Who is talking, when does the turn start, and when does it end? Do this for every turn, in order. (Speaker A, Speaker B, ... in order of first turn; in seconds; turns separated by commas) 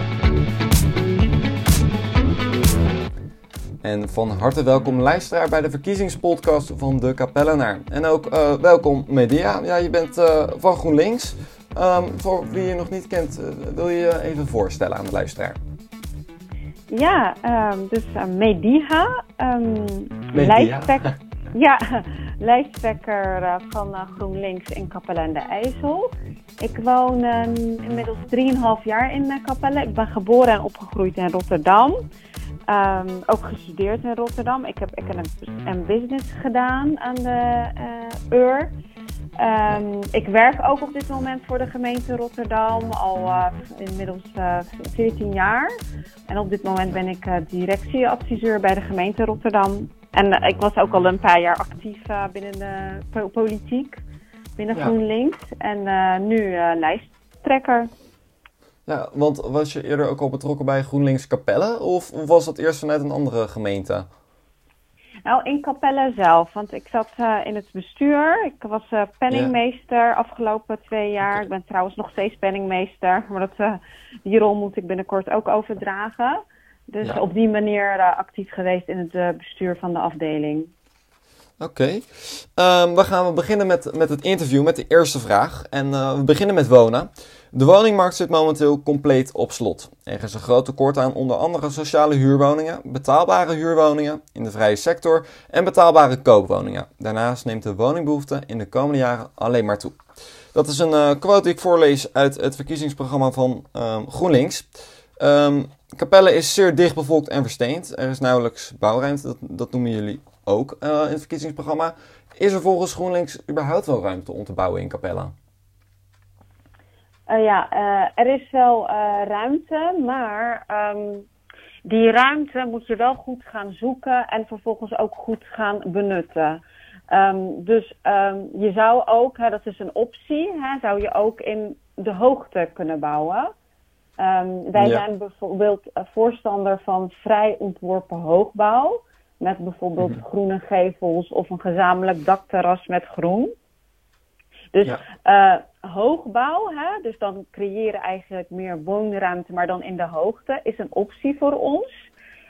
Speaker A: 3.8-15.6, Speaker B: 16.9-32.0, Speaker A: 20.3-21.1, Speaker B: 32.7-38.7, Speaker B: 39.4-45.7, Speaker B: 46.3-54.0, Speaker B: 54.6-57.9, Speaker A: 58.9-64.1, Speaker B: 65.2-80.7, Speaker A: 81.6-100.0, Speaker A: 100.5-115.3, Speaker B: 117.3-121.3, Speaker B: 121.8-133.5, Speaker B: 134.2-143.5, Speaker A: 134.8-135.0, Speaker B: 144.7-152.1